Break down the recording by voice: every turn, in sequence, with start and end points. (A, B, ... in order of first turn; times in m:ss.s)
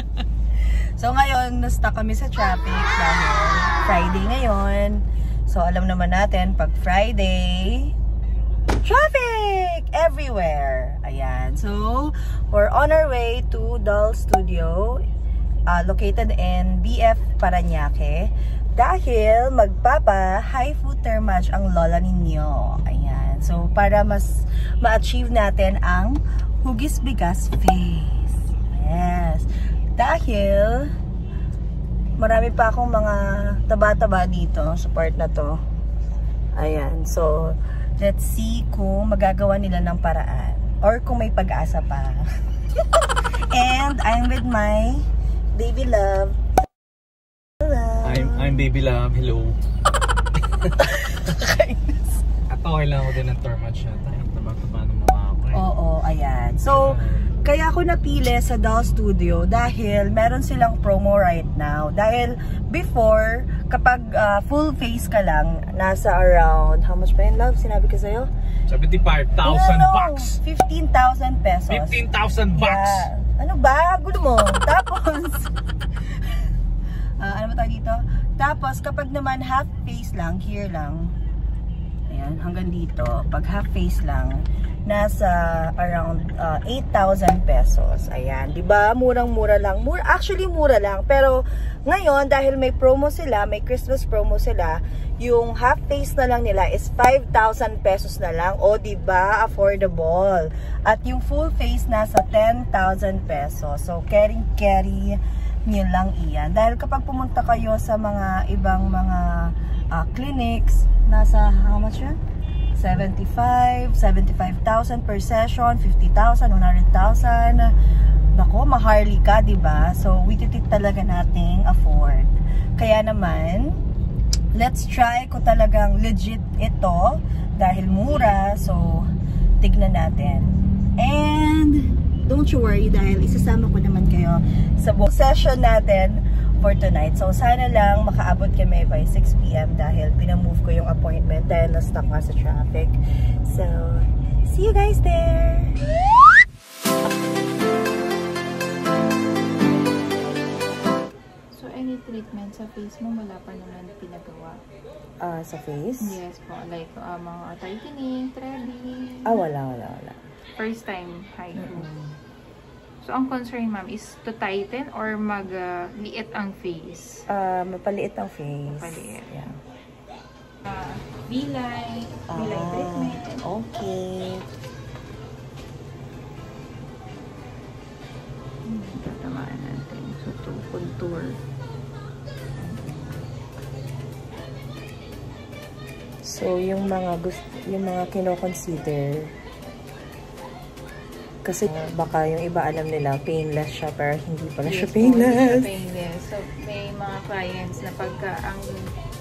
0:01.0-0:07.9 A
0:08.8-0:15.0 A
0:15.7-0:30.9 A
0:32.2-0:35.6 A
0:36.6-0:46.4 A
0:47.6-0:48.7 A
0:48.0-0:49.6 B
0:50.4-0:51.3 B
0:50.8-0:52.2 A
0:52.5-0:55.7 B
0:55.5-1:08.3 A
0:56.7-0:57.3 B
1:08.7-1:10.4 B
1:09.4-1:16.5 A
1:11.7-1:13.1 B
1:17.2-1:21.1 A
1:22.1-1:52.2 A
1:52.7-1:57.7 A
1:58.3-2:03.8 A
2:04.5-2:25.8 A
2:31.5-2:34.6 C
2:35.2-2:36.2 A
2:36.0-2:39.2 C
2:39.2-2:40.2 A
2:40.6-2:41.9 C
2:41.6-2:42.2 A
2:43.0-2:47.2 C
2:47.3-2:49.5 A
2:48.7-2:49.3 C
2:50.6-2:53.4 C
2:52.3-2:54.4 A
2:58.7-3:01.4 C
3:02.6-3:03.3 A
3:06.2-3:09.3 A
3:11.4-3:15.7 A
3:14.6-3:18.8 C